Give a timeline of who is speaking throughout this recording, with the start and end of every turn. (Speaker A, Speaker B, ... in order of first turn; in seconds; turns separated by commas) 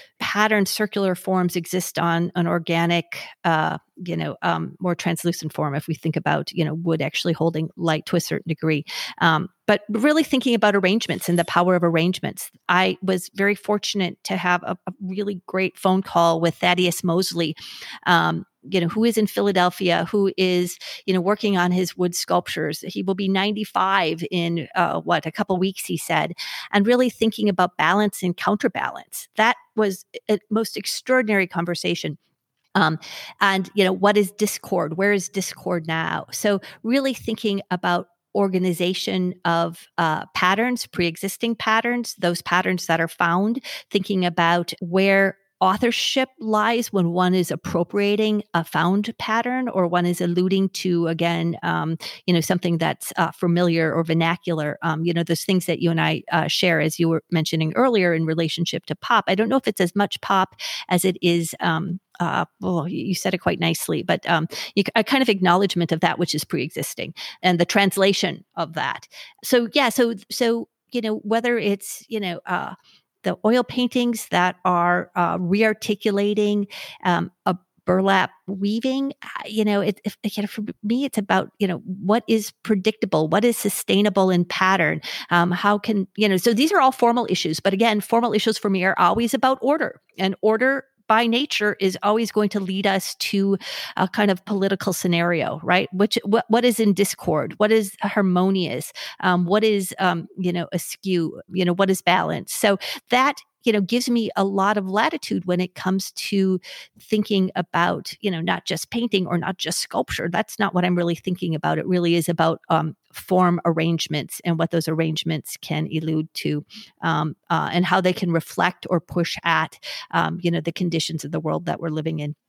Speaker A: 0.2-32.2, Speaker A: 32.7-122.3